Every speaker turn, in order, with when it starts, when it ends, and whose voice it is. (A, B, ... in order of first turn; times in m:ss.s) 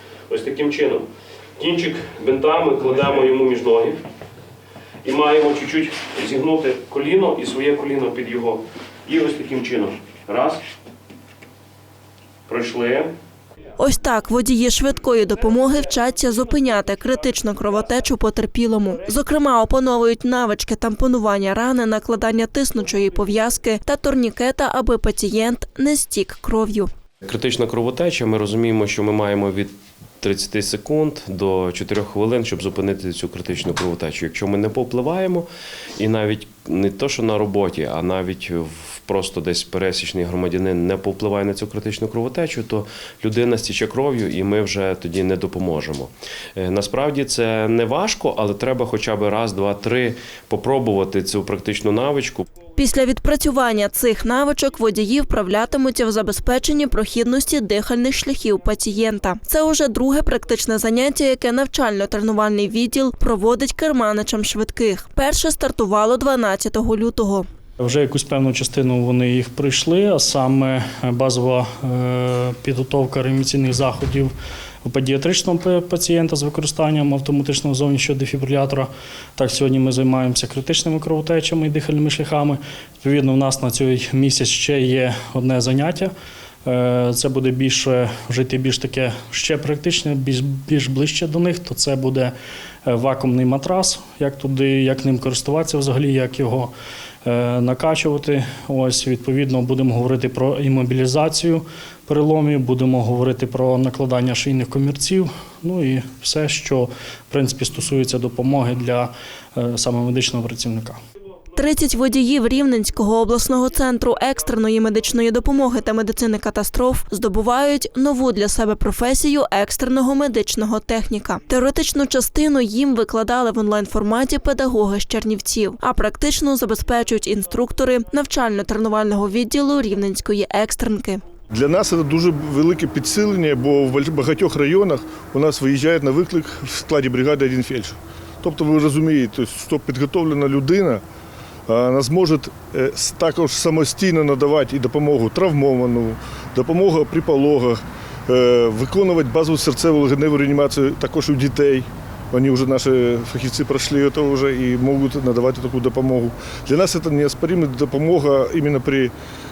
0:00.3-0:01.0 A
0:01.6-0:04.0 A
0:05.0-0:10.6 A
0:12.5-0:13.1 A
0:13.8-0:26.9 B
0:27.2-0:52.5 C
0:52.8-1:07.5 B
1:07.8-1:14.3 D
1:14.8-1:26.1 D
1:26.6-1:32.3 D
1:32.8-1:36.7 D
1:37.2-1:51.0 D
1:51.6-2:11.2 B
2:11.5-2:21.0 E
2:21.7-2:39.1 E